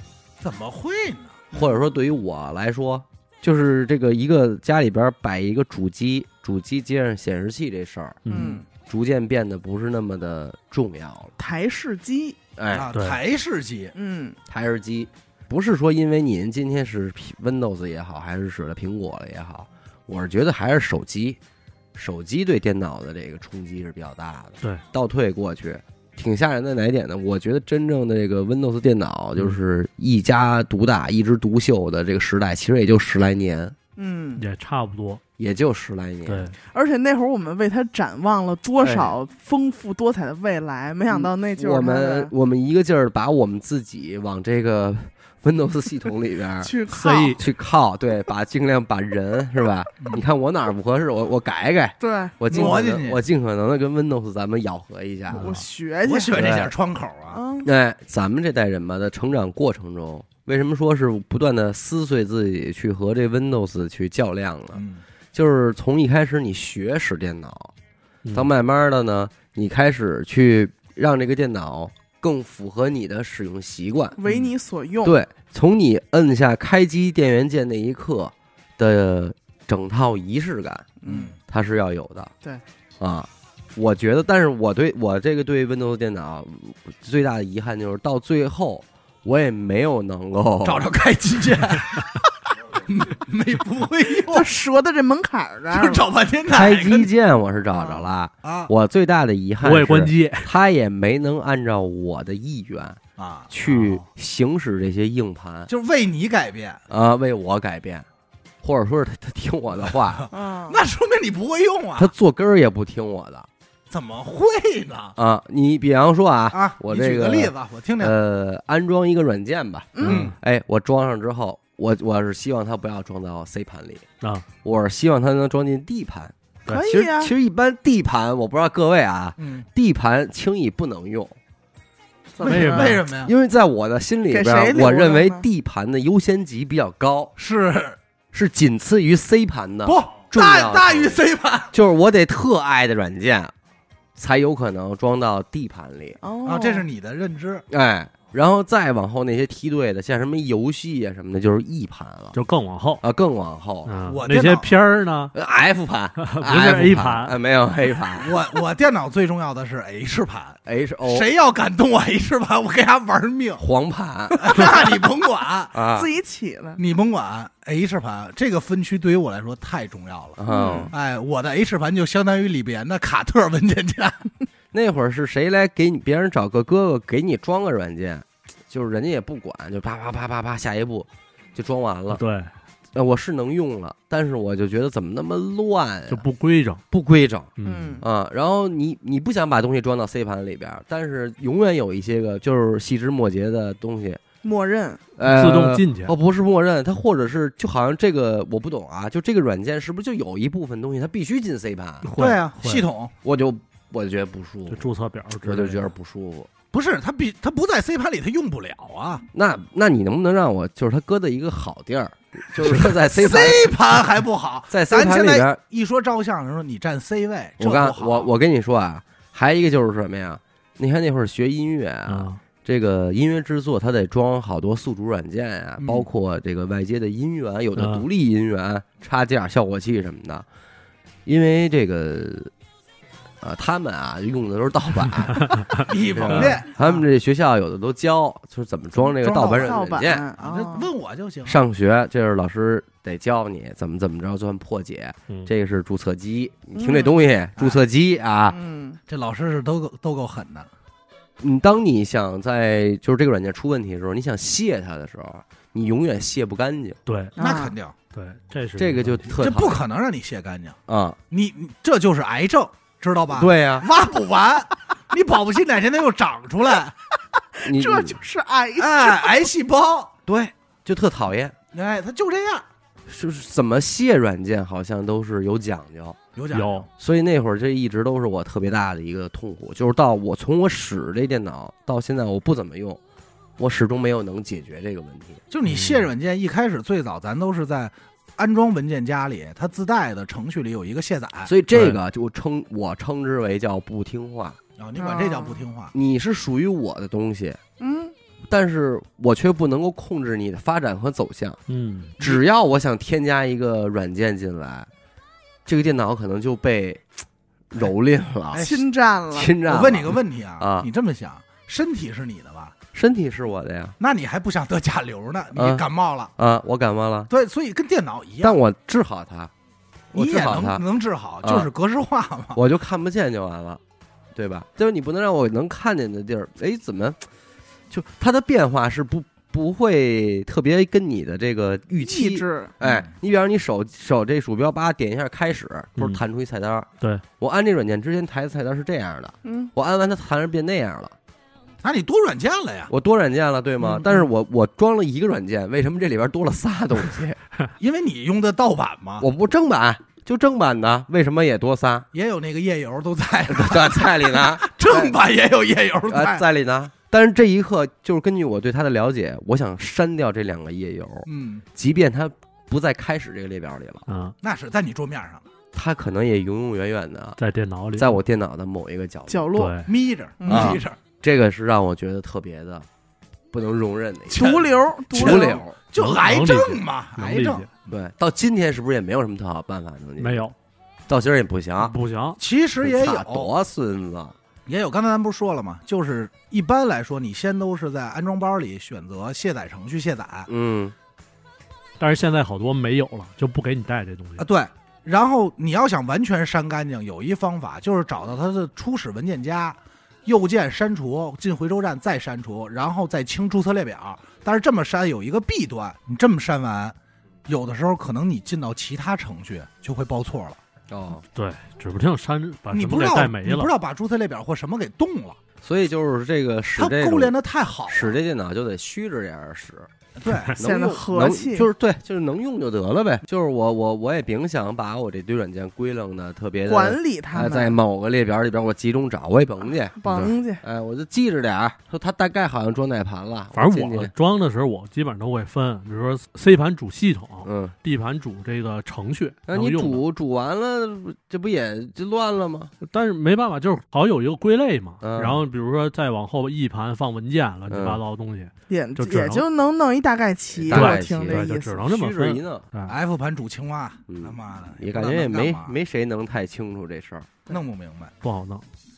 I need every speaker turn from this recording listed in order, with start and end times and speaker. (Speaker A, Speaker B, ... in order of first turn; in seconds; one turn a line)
Speaker A: 0.4-1.6
Speaker B: 1.5-8.2
Speaker C: 8.2-8.6
Speaker D: 8.3-8.7
Speaker B: 8.9-11.3
Speaker D: 11.4-12.4
Speaker B: 12.6-12.9
Speaker A: 12.7-13.9
Speaker D: 13.9-14.4
Speaker B: 14.5-21.4
Speaker B: 21.9-33.8
Speaker D: 34.0-34.4
Speaker C: 34.4-35.2
Speaker B: 35.4-36.5
Speaker C: 36.3-36.5
Speaker D: 36.6-42.3
Speaker B: 38.8-39.1
Speaker B: 41.1-46.7
Speaker D: 46.6-47.4
Speaker C: 46.9-47.4
Speaker B: 47.3-55.5
Speaker D: 52.0-52.7
Speaker A: 52.5-53.2
Speaker C: 55.3-55.6
Speaker D: 55.4-56.6
Speaker A: 56.0-57.4
Speaker B: 56.3-56.7
Speaker D: 57.3-57.7
Speaker B: 57.6-64.8
Speaker A: 64.7-65.0
Speaker B: 65.3-67.7
Speaker B: 68.3-74.2
Speaker D: 74.2-75.2
Speaker B: 75.0-82.3
Speaker D: 81.0-81.3
Speaker A: 81.0-81.4
Speaker B: 83.0-90.9
Speaker A: 90.6-92.2
Speaker A: 92.9-94.5
Speaker D: 94.2-96.0
Speaker A: 95.7-97.1
Speaker B: 96.5-103.0
Speaker D: 97.7-98.1
Speaker A: 98.4-98.7
Speaker C: 99.6-100.5
Speaker A: 103.2-103.5
Speaker B: 103.5-105.7
Speaker C: 103.7-104.0
Speaker A: 105.7-106.8
Speaker B: 106.9-108.1
Speaker B: 108.6-110.3
Speaker A: 110.1-112.1
Speaker D: 110.3-110.8
Speaker B: 112.0-113.5
Speaker A: 113.9-115.2
Speaker B: 115.2-124.0
Speaker A: 116.5-118.2
Speaker D: 119.9-120.3
Speaker A: 120.0-120.3
Speaker B: 124.6-126.3
Speaker D: 126.7-127.3
Speaker B: 126.8-131.4
Speaker A: 129.4-129.7
Speaker D: 132.4-133.0
Speaker A: 132.4-133.3
Speaker C: 132.4-133.0
Speaker B: 133.1-137.3
Speaker D: 134.3-135.4
Speaker A: 137.4-138.0
Speaker B: 138.3-141.2
Speaker A: 139.8-141.7
Speaker B: 141.7-143.5
Speaker B: 144.2-146.2
Speaker D: 146.2-146.9
Speaker A: 146.4-147.7
Speaker B: 147.7-152.4
Speaker C: 152.3-153.0
Speaker B: 153.0-153.9
Speaker C: 153.9-155.3
Speaker A: 154.1-154.7
Speaker B: 155.3-158.4
Speaker C: 156.2-157.4
Speaker A: 158.2-163.6
Speaker B: 160.7-161.3
Speaker B: 163.6-164.6
Speaker A: 164.3-165.8
Speaker D: 164.4-165.0
Speaker B: 165.7-166.1
Speaker D: 165.9-166.8
Speaker A: 166.8-174.3
Speaker B: 170.4-170.9
Speaker D: 170.5-170.9
Speaker B: 174.7-182.2
Speaker C: 182.1-182.5
Speaker B: 182.9-186.2
Speaker C: 186.1-186.8
Speaker B: 186.9-194.2
Speaker C: 187.6-188.0
Speaker D: 187.7-188.1
Speaker D: 194.4-195.0
Speaker B: 195.2-202.1
Speaker C: 195.2-196.1
Speaker C: 202.0-202.9
Speaker A: 202.2-203.1
Speaker B: 203.2-204.9
Speaker C: 204.7-205.9
Speaker B: 205.4-206.5
Speaker A: 206.7-209.2
Speaker B: 209.3-213.7
Speaker A: 212.7-218.3
Speaker B: 214.7-215.6
Speaker B: 217.6-230.5
Speaker C: 222.1-222.4
Speaker A: 225.8-226.1
Speaker C: 227.8-228.1
Speaker B: 231.3-232.5
Speaker B: 233.4-240.3
Speaker A: 235.8-237.0
Speaker C: 236.3-236.6
Speaker A: 239.1-241.6
Speaker D: 239.2-240.9
Speaker B: 241.4-248.6
Speaker D: 246.8-247.2
Speaker D: 248.5-249.0
Speaker A: 249.1-250.7
Speaker B: 251.4-257.0
Speaker C: 257.1-257.3
Speaker D: 257.4-257.8
Speaker A: 257.4-257.9
Speaker C: 258.1-259.4
Speaker B: 258.8-259.8
Speaker A: 259.4-260.8
Speaker B: 260.9-261.2
Speaker A: 261.3-266.9
Speaker B: 263.3-263.9
Speaker D: 267.6-269.5
Speaker B: 267.6-268.2
Speaker A: 268.8-270.1
Speaker B: 270.3-271.6
Speaker A: 271.7-272.7
Speaker B: 273.1-276.2
Speaker A: 276.4-276.9
Speaker C: 276.5-276.9
Speaker B: 277.0-283.0
Speaker B: 283.6-285.4
Speaker A: 285.5-291.5
Speaker C: 285.7-286.1
Speaker B: 291.5-294.6
Speaker C: 291.7-292.0
Speaker A: 294.8-295.9
Speaker D: 295.0-295.6
Speaker B: 295.9-297.6
Speaker D: 297.8-298.1
Speaker B: 298.5-301.6
Speaker C: 301.7-302.1
Speaker B: 302.2-304.9
Speaker B: 305.7-307.1
Speaker B: 307.7-308.7
Speaker A: 308.5-308.9
Speaker D: 308.6-309.5
Speaker B: 309.3-310.9
Speaker A: 309.6-312.8
Speaker B: 312.9-313.9
Speaker A: 314.0-316.3
Speaker B: 315.6-317.3
Speaker A: 317.3-318.6
Speaker B: 318.4-319.5
Speaker B: 320.1-320.8
Speaker A: 320.1-322.6
Speaker B: 321.4-321.7
Speaker B: 322.5-323.8
Speaker B: 324.4-327.2
Speaker B: 327.9-341.1
Speaker D: 332.0-332.7
Speaker A: 332.8-333.1
Speaker D: 339.4-339.7
Speaker A: 341.8-342.9
Speaker B: 342.9-347.4
Speaker A: 347.8-349.3
Speaker B: 349.2-352.1
Speaker A: 352.1-356.5
Speaker B: 353.5-355.1
Speaker B: 356.1-364.1
Speaker A: 361.3-361.6
Speaker C: 364.1-364.4
Speaker A: 364.4-365.5
Speaker B: 365.7-367.4
Speaker C: 367.4-368.2
Speaker B: 368.0-369.5
Speaker D: 369.3-369.8
Speaker C: 369.5-369.9
Speaker A: 369.9-371.0
Speaker D: 370.4-370.8
Speaker B: 370.5-372.9
Speaker B: 373.5-374.6
Speaker A: 374.3-377.9
Speaker D: 374.3-375.6
Speaker B: 375.1-375.8
Speaker C: 375.9-377.7
Speaker B: 377.9-380.4
Speaker C: 380.2-380.6
Speaker B: 381.1-381.9
Speaker C: 381.8-382.4
Speaker A: 382.4-383.5
Speaker B: 382.8-384.4
Speaker A: 384.7-390.5
Speaker B: 390.5-390.9
Speaker C: 392.0-394.4
Speaker A: 394.4-410.6
Speaker B: 410.9-411.2
Speaker C: 411.3-413.7
Speaker A: 412.7-415.4
Speaker B: 415.6-417.3
Speaker A: 416.8-418.2
Speaker B: 417.9-419.9
Speaker A: 420.2-420.6
Speaker B: 420.6-434.1
Speaker D: 420.6-421.7
Speaker D: 426.7-427.8
Speaker D: 430.0-430.6
Speaker C: 433.5-440.0
Speaker B: 437.4-437.7
Speaker B: 439.5-442.7
Speaker C: 442.8-449.5
Speaker B: 445.0-445.4
Speaker B: 447.7-448.0
Speaker D: 448.7-451.8
Speaker B: 450.6-452.6
Speaker C: 450.7-453.0
Speaker A: 452.9-455.7
Speaker B: 454.1-457.3
Speaker A: 457.5-458.1
Speaker C: 458.2-458.6